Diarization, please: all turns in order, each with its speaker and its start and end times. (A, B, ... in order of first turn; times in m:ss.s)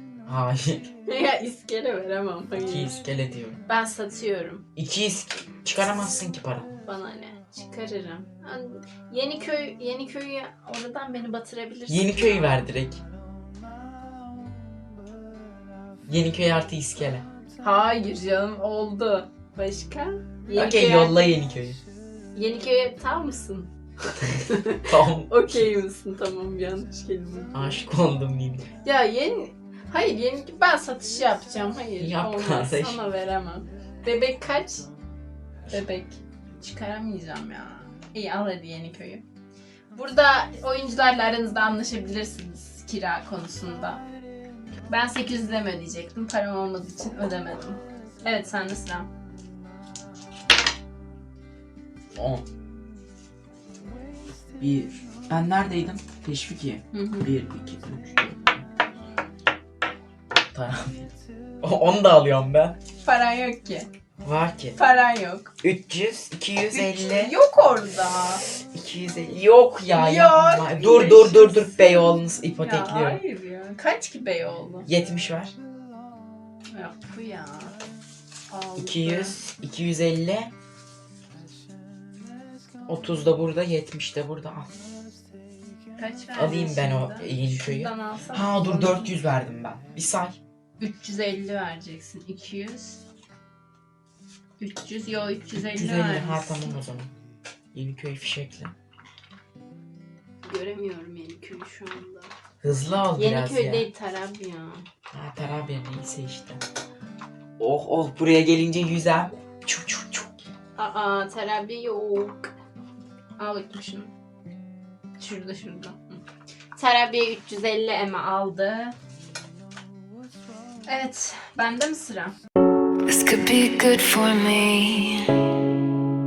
0:00.2-0:00.9 A
0:01.1-0:03.0 B
0:02.6-0:03.6 A
0:03.7-0:04.6 B
0:04.8-0:06.7 A
0:06.8-0:12.7 B
0:11.9-0:13.0 A
0:16.1-0:17.3 A
0:17.6-0:21.2 B
0:20.5-0:21.8 A
0:22.3-0:27.8 B
0:24.2-0:25.7 A
0:27.5-0:28.7 A
0:28.8-0:34.9 B
0:32.0-0:33.0 A
0:35.7-0:39.2 B
0:39.9-0:44.0 B
0:44.9-0:49.1 B
0:52.2-0:52.5 A
0:54.6-0:58.7 A
0:56.9-0:57.3 B
1:00.5-1:01.1 A
1:01.6-1:02.8 A
1:03.0-1:03.9 B
1:04.2-1:04.8 A
1:04.8-1:05.5 B
1:05.6-1:07.4 A
1:06.7-1:08.4 B
1:08.6-1:13.2 A
1:09.9-1:14.9 B
1:14.9-1:15.6 A
1:16.7-1:17.8 B
1:18.5-1:19.4 B
1:18.8-1:20.5 A
1:22.9-1:24.8 A
1:26.0-1:29.1 B
1:26.4-1:30.4 A
1:30.8-1:33.0 B
1:34.6-1:36.8 B
1:35.6-1:37.1 A
1:37.7-1:38.8 A
1:40.4-1:42.3 B
1:42.6-1:43.9 A
1:43.2-1:44.8 B
1:45.1-1:46.6 A
1:47.6-1:50.4 A
1:50.8-1:52.5 B
1:53.4-1:54.1 B
1:55.2-1:56.2 B
1:56.8-1:59.0 B
2:00.9-2:02.4 B
2:03.1-2:05.4 C